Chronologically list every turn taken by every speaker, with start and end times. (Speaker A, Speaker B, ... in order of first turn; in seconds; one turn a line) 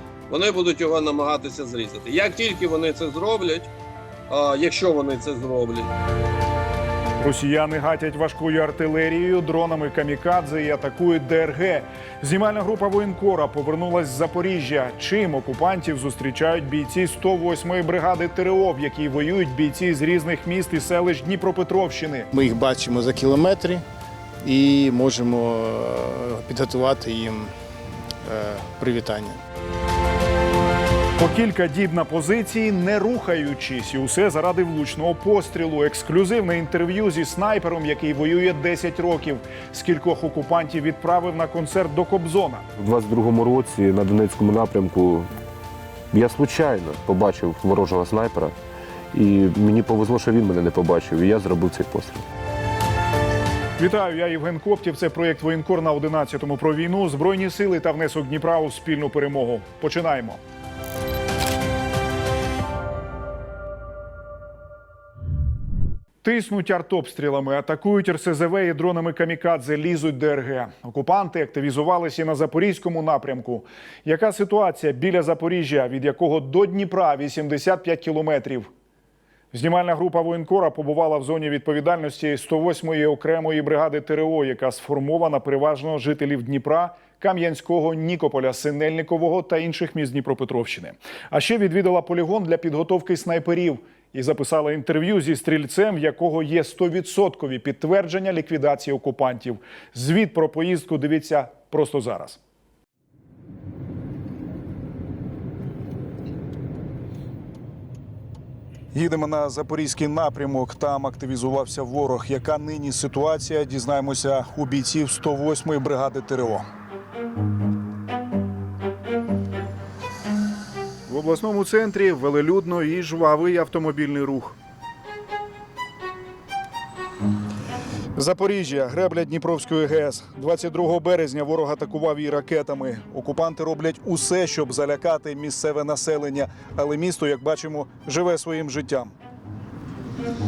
Speaker A: 0.3-3.7
Speaker A: 4.3-5.9
Speaker B: 7.2-22.3
Speaker C: 22.3-23.8
Speaker C: 24.4-27.5
Speaker C: 28.2-29.4
Speaker B: 31.2-42.6
Speaker D: 42.8-45.3
Speaker D: 46.1-48.5
Speaker D: 49.1-52.2
Speaker B: 53.8-60.4
Speaker B: 66.2-78.7
Speaker B: 79.5-102.4
Speaker B: 108.9-116.7
Speaker B: 121.1-124.6
Speaker B: 128.2-139.1